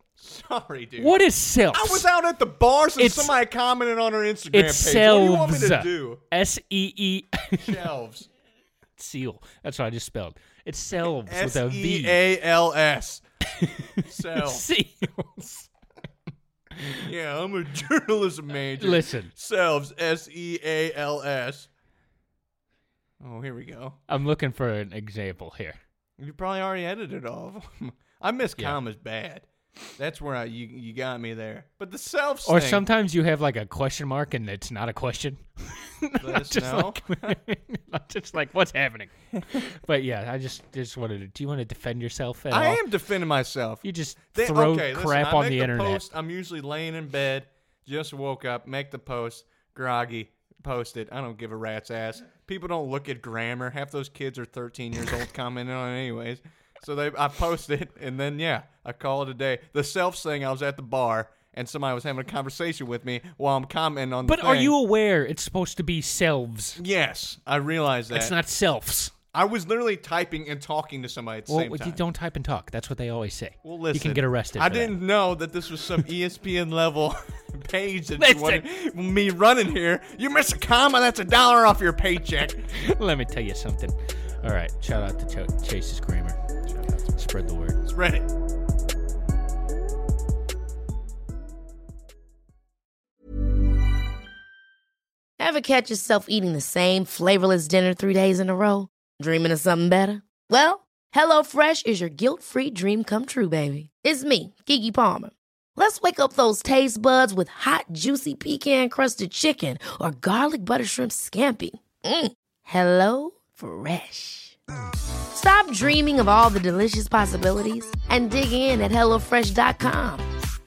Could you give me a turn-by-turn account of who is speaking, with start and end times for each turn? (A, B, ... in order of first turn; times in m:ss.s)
0:00.2-0:01.2 A
0:01.0-0:02.1 B
0:01.7-0:06.2 A
0:03.0-0:03.3 B
0:04.5-0:07.8 B
0:07.6-0:08.3 A
0:09.0-0:12.2 B
0:11.2-0:13.2 A
0:13.6-0:15.6 B
0:13.9-0:14.7 A
0:16.8-0:21.7 A
0:18.8-0:19.3 B
0:23.2-0:24.0 A
0:24.1-0:25.8 B
0:26.2-0:32.8 A
0:32.4-0:42.8 B
0:36.2-0:37.4 A
0:42.5-1:04.7 A
0:43.8-0:46.0 B
1:04.2-1:06.8 B
1:06.8-1:08.3 A
1:08.1-1:09.1 B
1:09.3-1:12.0 A
1:11.5-1:15.0 B
1:13.6-1:22.7 A
1:18.2-1:18.6 B
1:22.7-1:26.4 B
1:26.7-1:27.3 A
1:27.2-1:27.8 B
1:27.8-1:28.3 A
1:35.4-1:54.6 C
1:55.3-2:00.2 C